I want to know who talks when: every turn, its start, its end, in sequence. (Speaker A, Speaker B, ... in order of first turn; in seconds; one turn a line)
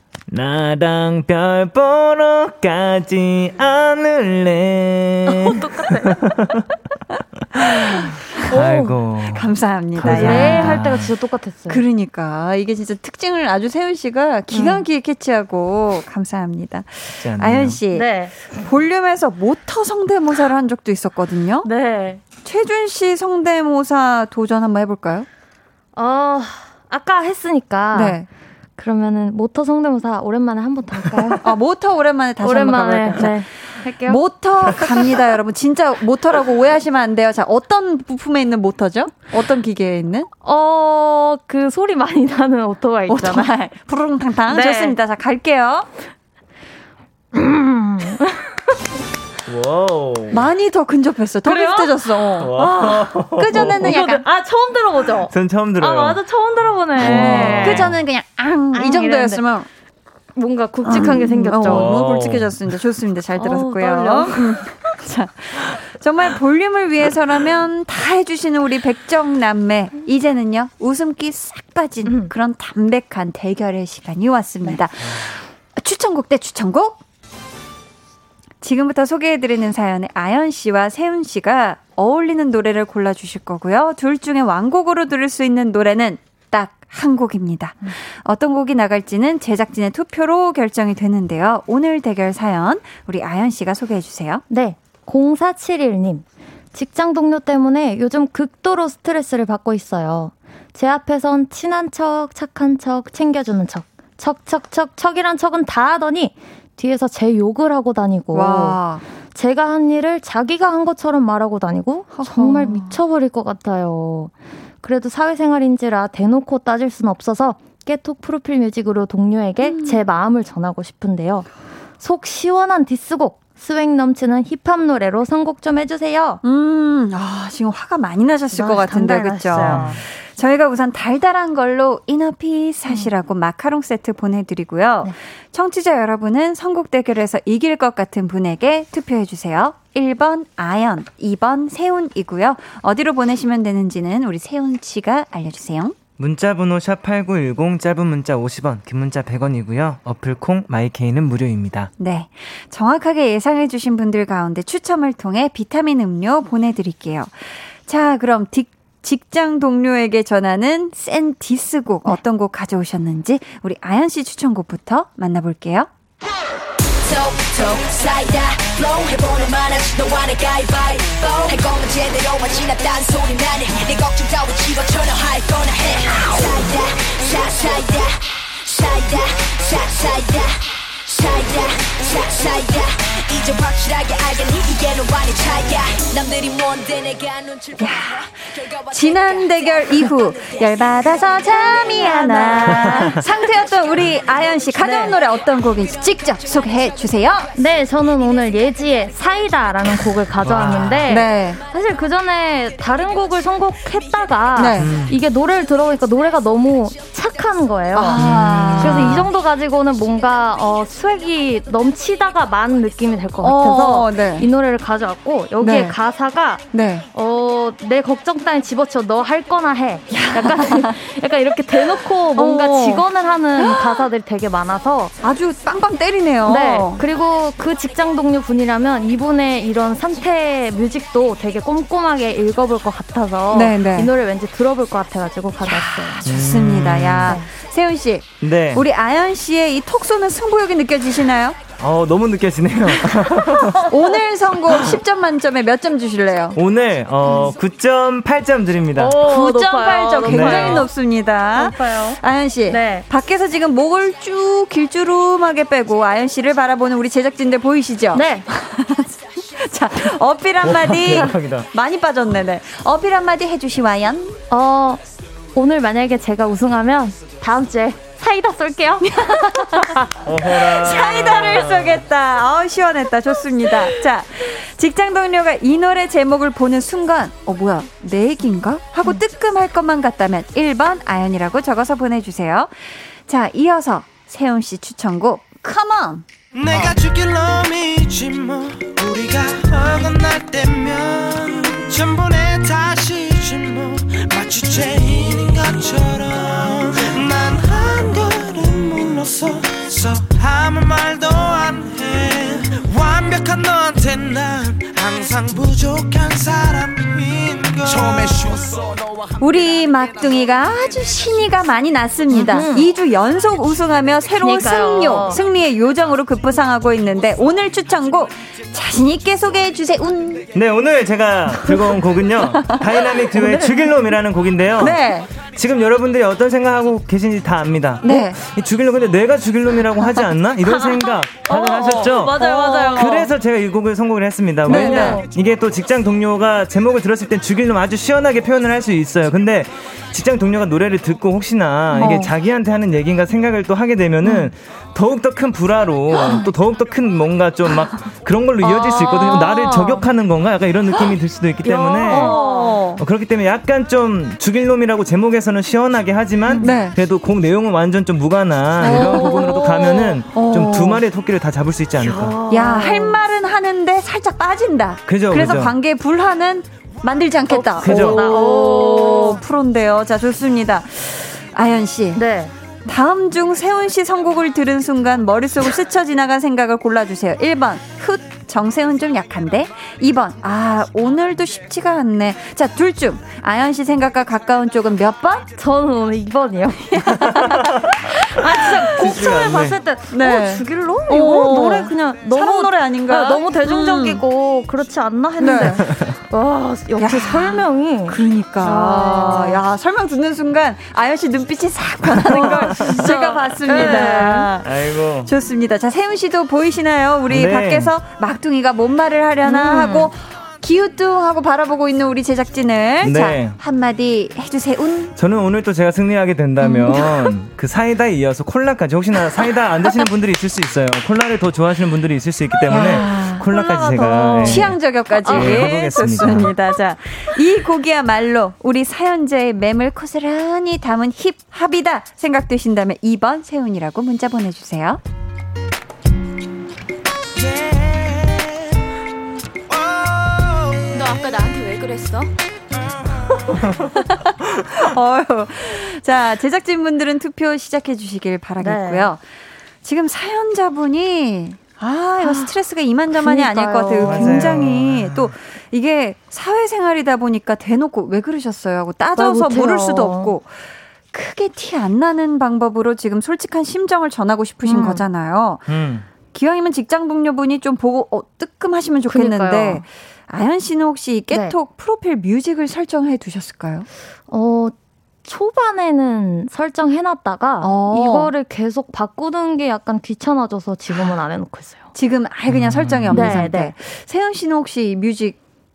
Speaker A: 0.3-6.7
Speaker B: 5.3-6.2
Speaker A: 7.5-11.1
Speaker B: 8.5-8.9
Speaker C: 9.3-10.8
Speaker B: 10.0-11.8
Speaker C: 11.7-21.7
Speaker B: 14.5-14.8
Speaker A: 17.2-17.8
Speaker B: 17.9-18.3
Speaker B: 21.6-22.2
Speaker C: 22.4-25.3
Speaker B: 25.9-28.2
Speaker C: 27.9-28.3
Speaker B: 28.8-31.6
Speaker C: 31.4-40.3
Speaker B: 32.4-34.2
Speaker B: 40.4-43.5
Speaker C: 43.1-45.9
Speaker B: 44.5-45.0
Speaker B: 47.3-48.7
Speaker A: 49.5-50.5
Speaker C: 50.3-52.5
Speaker B: 51.4-57.9
Speaker A: 52.4-54.0
Speaker C: 53.3-54.2
Speaker A: 55.3-56.2
Speaker A: 57.0-58.0
Speaker C: 57.0-59.7
Speaker B: 58.7-59.4
Speaker B: 60.4-61.9
Speaker C: 60.8-77.0
Speaker A: 61.5-62.6
Speaker B: 63.4-64.7
Speaker B: 72.0-72.3
Speaker A: 75.0-75.3
Speaker C: 78.6-94.4
Speaker B: 94.5-108.8
Speaker C: 108.3-109.0
Speaker B: 109.3-121.5
Speaker C: 112.1-113.0
Speaker C: 119.6-120.0
Speaker B: 122.0-126.4
Speaker C: 126.4-145.9
Speaker B: 128.5-130.0
Speaker A: 129.5-130.0
Speaker A: 146.2-151.9
Speaker C: 152.0-165.9
Speaker D: 167.0-190.9
Speaker C: 187.8-197.5
Speaker B: 191.9-193.2
Speaker B: 194.7-195.2
Speaker B: 197.5-208.2
Speaker A: 200.4-201.1
Speaker C: 201.1-201.6
Speaker C: 204.5-204.9
Speaker A: 204.8-205.2
Speaker C: 207.9-209.2
Speaker A: 208.2-209.3
Speaker B: 208.8-225.1
Speaker C: 213.4-214.5
Speaker C: 215.6-216.0
Speaker C: 216.7-217.0
Speaker C: 220.1-220.9
Speaker C: 222.3-223.0
Speaker C: 223.6-224.0
Speaker C: 225.2-227.0
Speaker B: 226.4-236.2
Speaker C: 233.5-234.1
Speaker C: 235.6-241.6
Speaker A: 236.2-237.4
Speaker B: 237.2-237.5
Speaker A: 238.4-238.8
Speaker A: 241.8-243.9
Speaker C: 243.8-246.6
Speaker A: 244.7-245.0
Speaker A: 246.5-249.2
Speaker B: 247.2-247.5
Speaker B: 248.9-250.9
Speaker C: 249.2-264.4
Speaker A: 250.2-250.9
Speaker B: 251.5-253.1
Speaker B: 258.1-258.5
Speaker A: 260.6-261.7
Speaker B: 264.5-265.0
Speaker B: 265.5-270.2
Speaker C: 269.1-286.2
Speaker A: 270.2-272.0
Speaker E: 286.5-308.7
Speaker C: 309.4-320.5
Speaker B: 312.3-312.9
Speaker B: 314.4-315.4
Speaker A: 320.5-352.4
Speaker C: 322.4-323.4
Speaker B: 323.4-323.8
Speaker C: 324.8-325.3
Speaker C: 328.0-328.4
Speaker B: 330.6-333.3
Speaker C: 332.4-333.2
Speaker B: 334.6-335.3
Speaker C: 334.6-335.2
Speaker B: 341.9-342.2
Speaker C: 342.0-342.3
Speaker B: 348.6-350.1
Speaker C: 351.6-353.0
Speaker B: 352.0-352.8
Speaker A: 353.0-362.4
Speaker B: 356.4-356.7
Speaker C: 356.6-356.9
Speaker C: 358.8-359.6
Speaker B: 358.8-360.2
Speaker C: 360.3-361.0
Speaker B: 362.0-363.2
Speaker C: 362.5-372.2
Speaker A: 365.1-365.7
Speaker B: 367.5-369.4
Speaker A: 367.8-368.4
Speaker B: 372.1-372.5
Speaker C: 372.9-385.5
Speaker B: 385.6-387.3
Speaker C: 387.0-387.8
Speaker A: 387.4-387.9
Speaker B: 388.0-399.6
Speaker A: 388.6-389.8
Speaker C: 390.1-394.2
Speaker C: 395.4-395.8
Speaker C: 397.0-415.1
Speaker A: 402.2-403.1
Speaker B: 402.2-404.5
Speaker A: 403.7-405.3
Speaker A: 407.3-407.9
Speaker B: 409.4-410.1
Speaker A: 413.0-413.6
Speaker A: 415.1-426.5
Speaker B: 416.6-417.0
Speaker C: 422.7-435.0
Speaker B: 422.7-425.7
Speaker E: 437.4-438.5
Speaker E: 439.7-440.8
Speaker A: 443.5-443.8
Speaker C: 444.7-449.2
Speaker B: 448.6-449.1
Speaker C: 449.8-460.5
Speaker B: 452.2-452.5
Speaker B: 453.1-454.6
Speaker A: 454.0-455.3
Speaker B: 459.1-460.3
Speaker C: 461.1-465.6
Speaker B: 464.6-465.0
Speaker A: 465.7-466.1
Speaker C: 466.3-473.9
Speaker B: 469.1-469.8
Speaker B: 471.3-471.6
Speaker B: 474.3-474.7
Speaker B: 475.2-481.9
Speaker C: 477.6-478.3
Speaker C: 481.9-485.4
Speaker A: 482.5-483.4
Speaker B: 483.1-483.7